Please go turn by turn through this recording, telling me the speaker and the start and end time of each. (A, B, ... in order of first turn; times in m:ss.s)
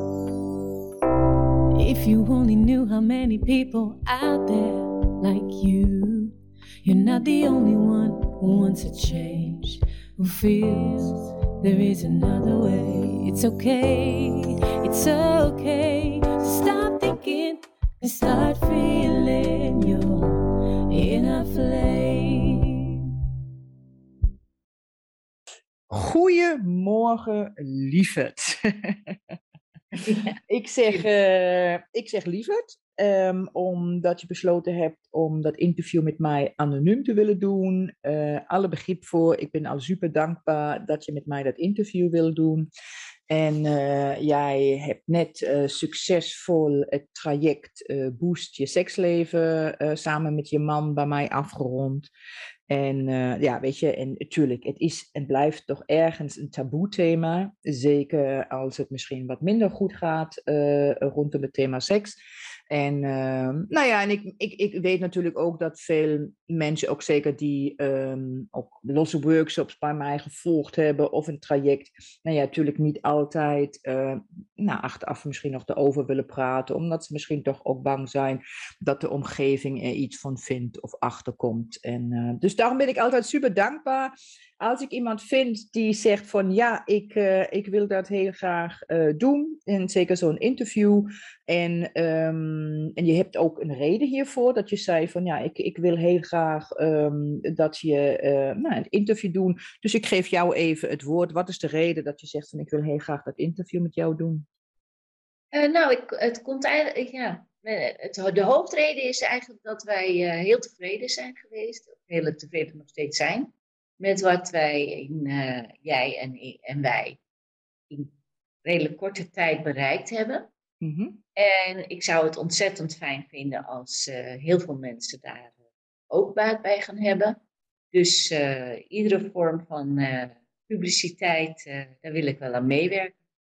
0:01.7-0:23.0 A
0:25.9-0:29.2 B
0:30.0-0:30.4 C
0:30.5-0:42.6 B
0:43.3-0:52.1 B
0:52.7-1:44.4 B
1:45.5-1:57.2 C
1:58.6-2:00.5 C
2:00.8-2:01.2 B
2:01.4-2:05.5 C
2:06.1-2:07.4 C
2:07.9-2:13.1 C